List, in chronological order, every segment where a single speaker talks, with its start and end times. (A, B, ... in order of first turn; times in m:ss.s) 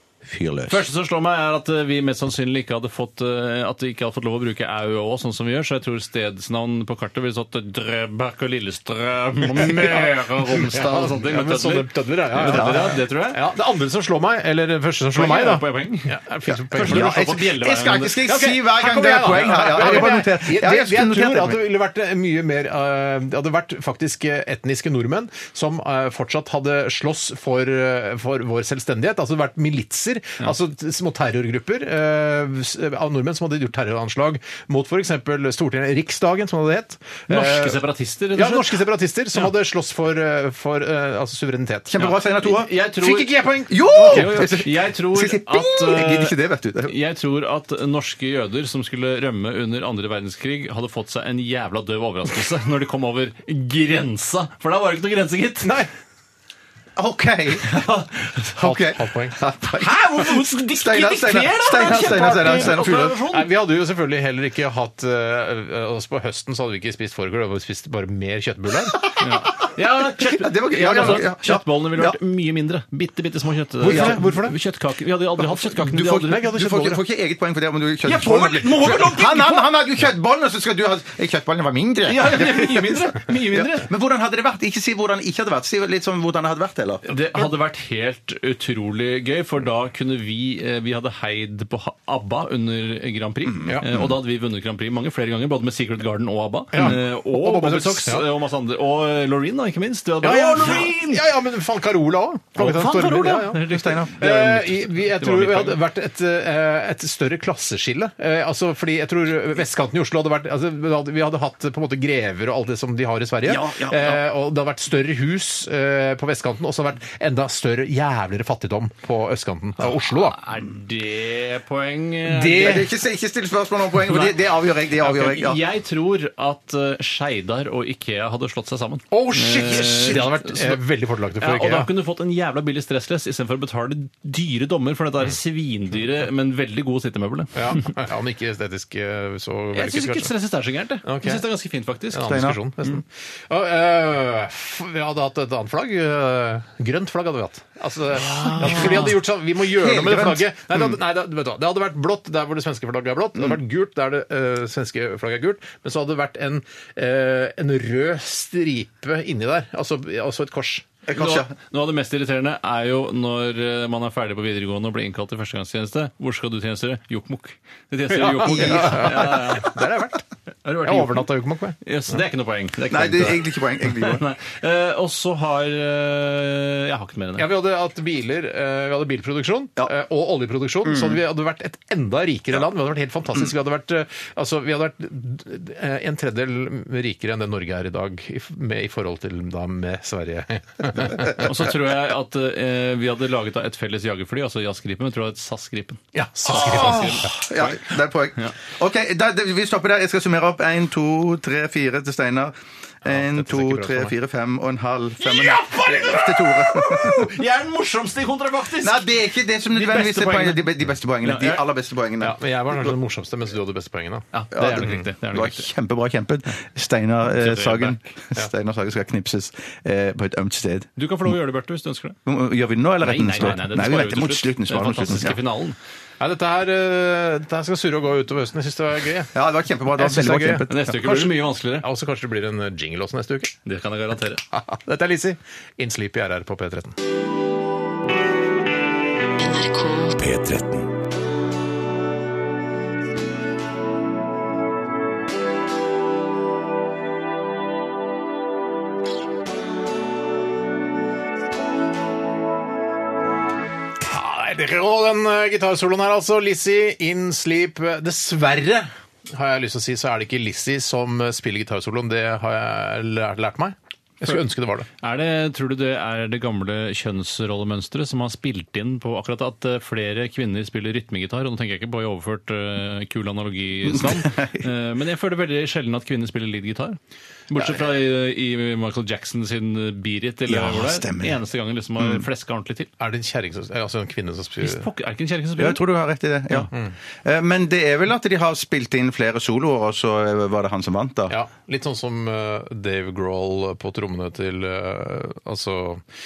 0:00.2-0:00.8 A
0:00.7-0:13.4 B
0:09.4-0:17.3 C
0:12.4-0:13.0 A
0:15.1-0:16.1 B
0:16.5-0:21.6 A
0:16.7-0:18.3 B
0:18.2-0:37.8 C
0:19.7-0:20.1 B
0:37.3-0:38.8 B
0:38.3-0:42.1 C
0:41.9-0:42.7 A
0:42.0-0:43.3 B
0:43.0-0:44.5 C
0:43.7-0:46.9 A
0:44.1-0:55.7 B
0:55.6-0:55.9 C
0:57.0-1:03.2 A
0:58.6-0:59.4 C
0:59.8-1:03.5 B
1:02.3-1:02.7 C
1:03.3-1:09.1 C
1:09.2-1:16.5 B
1:10.3-1:12.2 A
1:13.8-1:14.5 C
1:13.8-1:14.2 A
1:15.8-1:27.0 A
1:16.0-1:17.0 C
1:18.0-1:19.7 B
1:22.0-1:23.9 B
1:27.1-1:41.2 B
1:27.1-1:27.4 C
1:33.6-1:34.1 A
1:36.7-1:38.2 C
1:40.2-2:00.4 C
1:42.6-1:45.8 B
1:43.7-1:44.1 A
1:53.4-1:54.2 A
1:59.8-2:02.9 B
2:02.2-2:02.9 C
2:02.5-2:05.6 A
2:04.0-2:10.8 B
2:09.1-2:11.9 C
2:11.4-2:17.8 B
2:17.5-2:20.3 C
2:19.7-2:22.3 B
2:21.0-2:21.4 C
2:22.1-2:40.9 C
2:22.2-2:22.6 A
2:28.2-2:29.1 B
2:28.4-2:29.0 A
2:29.6-2:30.8 A
2:41.0-2:41.5 A
2:41.1-2:49.8 B
2:48.1-2:50.2 C
2:48.5-2:49.5 A
2:50.6-2:57.5 B
2:50.8-2:51.8 C
2:52.9-2:54.2 A
2:57.4-3:11.5 C
3:00.8-3:01.2 A
3:11.4-3:18.5 B
3:16.1-3:17.3 C
3:16.5-3:27.3 A
3:23.0-3:24.1 C
3:25.2-3:29.2 B
3:28.8-3:32.4 A
3:29.7-3:31.6 B
3:32.2-3:35.0 C
3:34.3-3:35.7 B
3:34.5-3:40.9 A
3:37.3-3:38.0 B
3:41.0-3:42.2 B
3:42.2-3:45.4 A
3:43.0-3:45.8 B
3:46.2-3:49.3 C
3:49.3-3:51.1 A
3:49.9-3:53.6 C
3:50.7-3:51.8 B
3:53.6-3:54.4 B
3:54.5-3:57.0 C
3:59.5-4:00.9 A
4:14.0-4:24.9 C
4:25.0-4:37.0 B
4:34.1-4:34.5 A
4:37.5-4:42.9 B
4:40.5-4:41.4 A
4:43.0-4:44.8 C
4:44.6-4:45.8 B
4:45.6-4:46.7 A
4:47.2-4:51.3 A
4:51.3-4:56.0 C